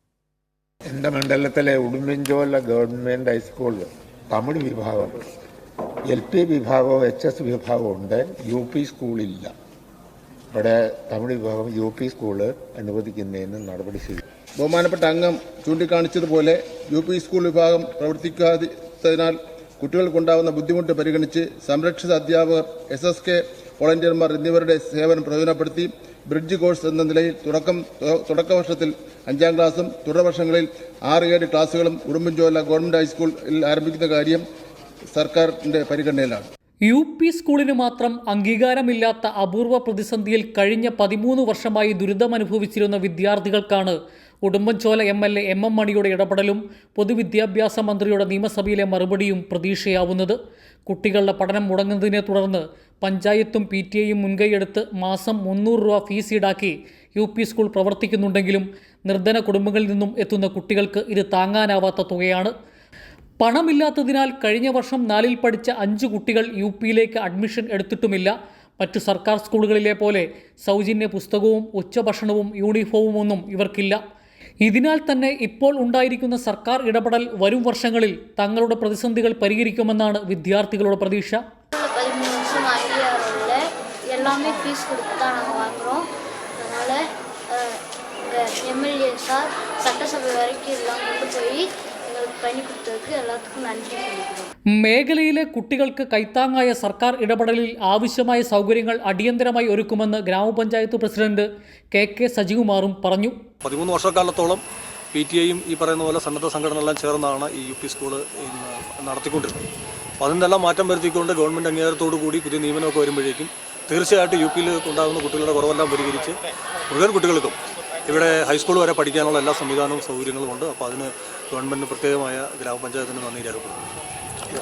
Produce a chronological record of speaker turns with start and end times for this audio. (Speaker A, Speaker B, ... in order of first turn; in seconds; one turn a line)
Speaker A: 0.9-5.2
Speaker A: 6.1-9.5
Speaker A: 10.5-14.2
Speaker B: 14.6-34.4
Speaker B: 35.1-36.5
Speaker C: 36.9-50.4
Speaker C: 50.9-62.5
Speaker C: 63.4-74.0
Speaker C: 74.6-81.4
Speaker D: 81.8-86.1
Speaker D: 86.6-94.5
Speaker C: 94.8-103.3
Speaker E: 103.6-104.6
Speaker E: 105.1-109.6
Speaker E: 110.2-116.4
Speaker E: 116.9-123.8